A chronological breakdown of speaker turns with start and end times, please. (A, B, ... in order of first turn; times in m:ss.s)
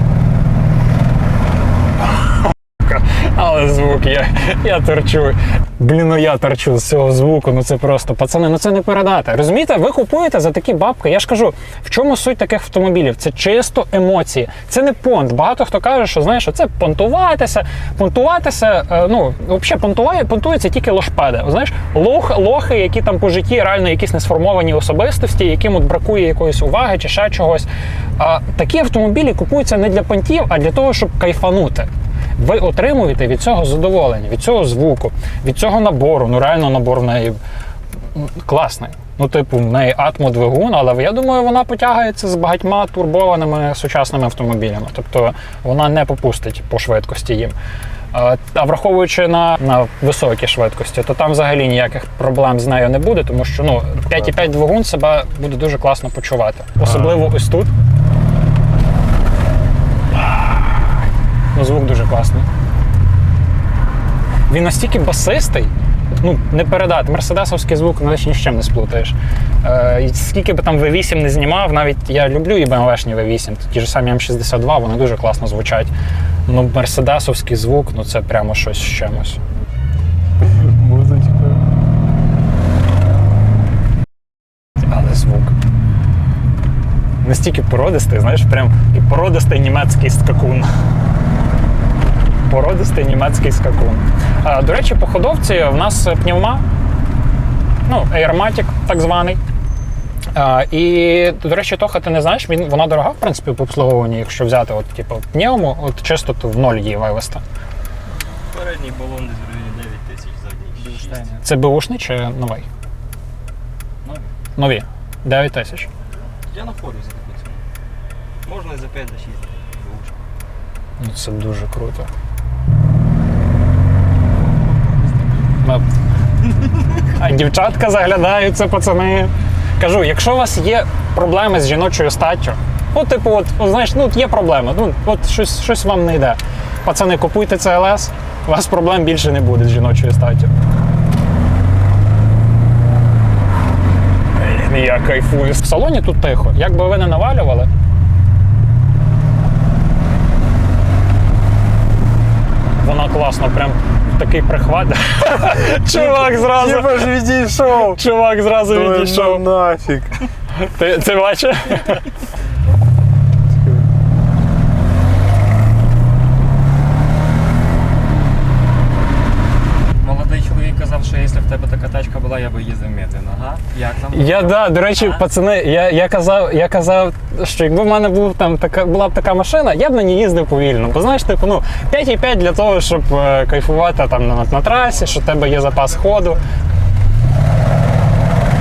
0:02.5-0:27.7 A
0:28.2-0:37.4 A
0:38.1-0:47.5 A
0:48.1-0:57.7 A
1:01.5-1:02.5 A
1:04.5-1:15.9 A
1:16.5-1:19.4 A
1:20.4-1:21.6 B
1:24.8-1:25.5 A
1:27.2-1:30.7 A
1:32.5-1:36.6 A
1:37.9-1:39.4 A
1:40.3-1:47.4 A
1:48.1-1:51.4 C
1:51.4-1:52.7 A
1:54.0-1:54.3 C
1:54.6-1:55.9 A
1:56.5-1:57.6 C
1:58.4-2:00.2 C
2:01.0-2:02.1 A
2:04.3-2:05.6 C
2:07.1-2:20.5 A
2:24.4-2:27.7 A
2:32.8-2:37.2 A
2:35.6-2:38.0 B
2:37.8-2:39.4 A
2:38.6-2:40.2 B
2:40.5-2:42.0 A
2:50.0-2:55.2 C
2:54.1-3:06.4 A